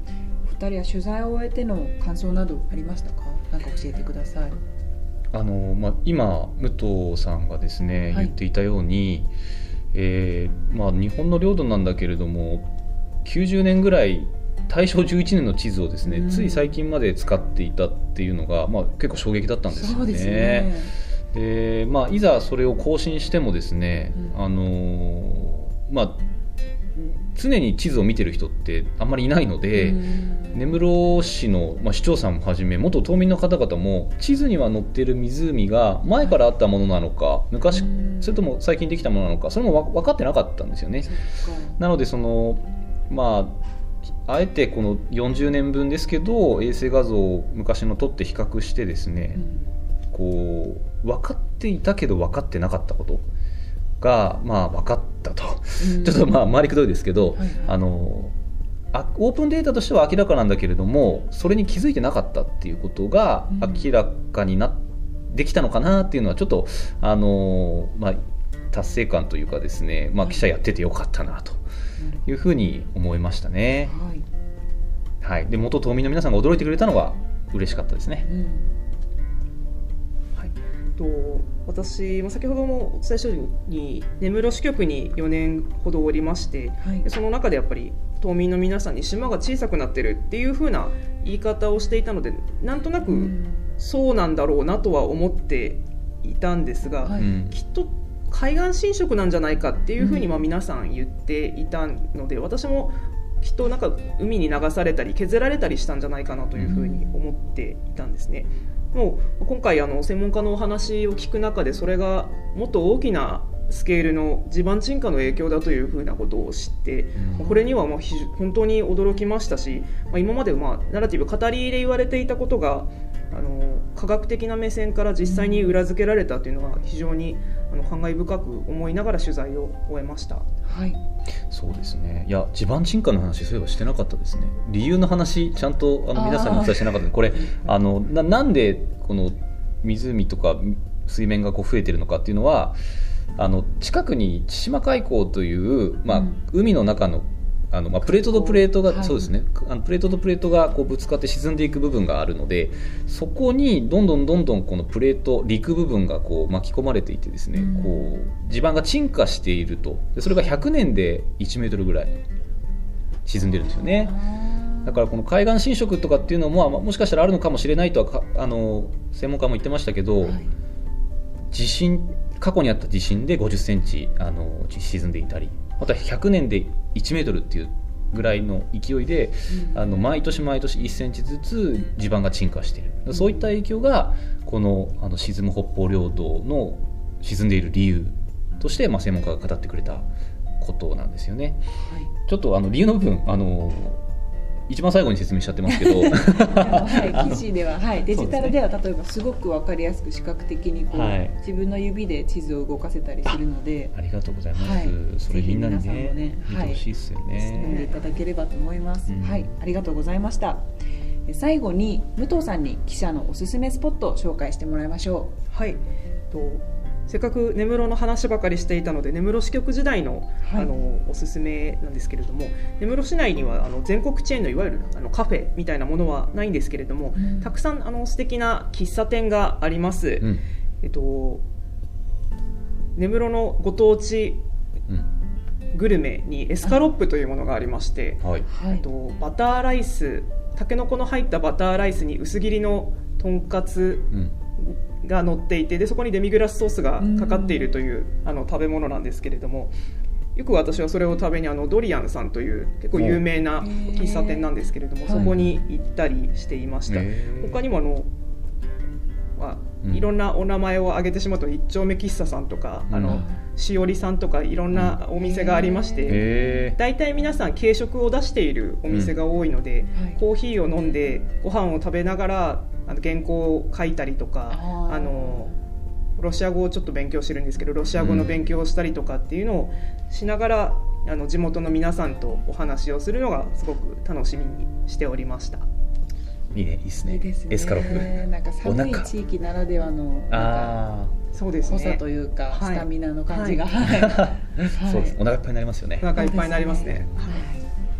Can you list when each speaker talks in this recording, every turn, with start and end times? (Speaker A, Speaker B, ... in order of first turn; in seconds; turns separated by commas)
Speaker A: 0.4-4.6, Speaker B: 5.3-9.3, Speaker B: 9.9-12.7, Speaker B: 13.2-20.7, Speaker A: 16.0-16.7, Speaker A: 19.7-20.9, Speaker B: 21.3-26.2, Speaker B: 27.0-41.1, Speaker A: 29.8-30.8, Speaker A: 37.7-38.4, Speaker A: 41.0-41.8, Speaker B: 41.8-43.6, Speaker B: 44.2-49.4, Speaker A: 49.4-49.7, Speaker B: 50.1-53.2, Speaker B: 54.0-58.3, Speaker A: 55.8-56.4, Speaker A: 57.3-57.8, Speaker B: 58.9-68.2, Speaker A: 63.5-63.9, Speaker B: 68.7-71.6, Speaker A: 72.0-72.3, Speaker B: 72.3-73.9, Speaker A: 73.8-74.2, Speaker B: 75.2-78.3, Speaker A: 78.2-78.7, Speaker C: 80.4-130.4, Speaker A: 93.1-93.7, Speaker A: 97.0-97.3, Speaker B: 97.1-97.6, Speaker A: 100.0-100.4, Speaker A: 106.6-107.1, Speaker B: 117.2-117.5, Speaker A: 117.4-117.7, Speaker A: 125.2-125.8, Speaker A: 130.7-131.0, Speaker B: 131.5-142.8, Speaker A: 136.2-137.7, Speaker B: 143.4-162.2, Speaker A: 146.1-146.4, Speaker A: 148.2-149.3, Speaker A: 157.5-158.2, Speaker B: 163.3-164.2, Speaker A: 163.4-165.0, Speaker B: 164.8-170.4, Speaker A: 170.2-170.5, Speaker B: 171.5-190.1, Speaker A: 179.5-180.1, Speaker A: 183.1-183.5, Speaker B: 190.6-191.6, Speaker A: 191.8-192.1, Speaker B: 192.3-194.0, Speaker B: 194.7-197.4, Speaker A: 195.7-204.0, Speaker B: 198.1-198.6, Speaker B: 200.9-201.3, Speaker B: 203.9-207.8, Speaker A: 204.5-210.7, Speaker C: 207.6-208.0, Speaker B: 209.1-209.5, Speaker A: 211.3-215.3, Speaker C: 215.5-231.4, Speaker A: 220.4-220.7, Speaker A: 227.2-227.5, Speaker C: 233.0-234.4, Speaker C: 235.7-244.1, Speaker B: 238.2-238.5, Speaker A: 238.5-238.9, Speaker C: 244.6-249.7, Speaker A: 247.0-247.7, Speaker C: 250.4-258.1, Speaker B: 252.9-253.2, Speaker A: 253.6-254.5, Speaker A: 255.1-255.3, Speaker B: 255.1-255.6, Speaker B: 256.9-257.6, Speaker C: 259.4-275.5, Speaker B: 262.9-263.2, Speaker A: 263.0-263.4, Speaker A: 264.8-266.7, Speaker B: 266.1-266.8, Speaker B: 268.9-269.1, Speaker A: 274.5-275.6, Speaker C: 276.2-285.7, Speaker B: 278.0-278.3, Speaker B: 286.5-289.1, Speaker A: 287.0-290.8, Speaker B: 290.3-291.1, Speaker C: 291.3-293.7, Speaker A: 291.6-295.2, Speaker B: 293.8-296.1, Speaker C: 296.0-297.4, Speaker A: 296.1-297.7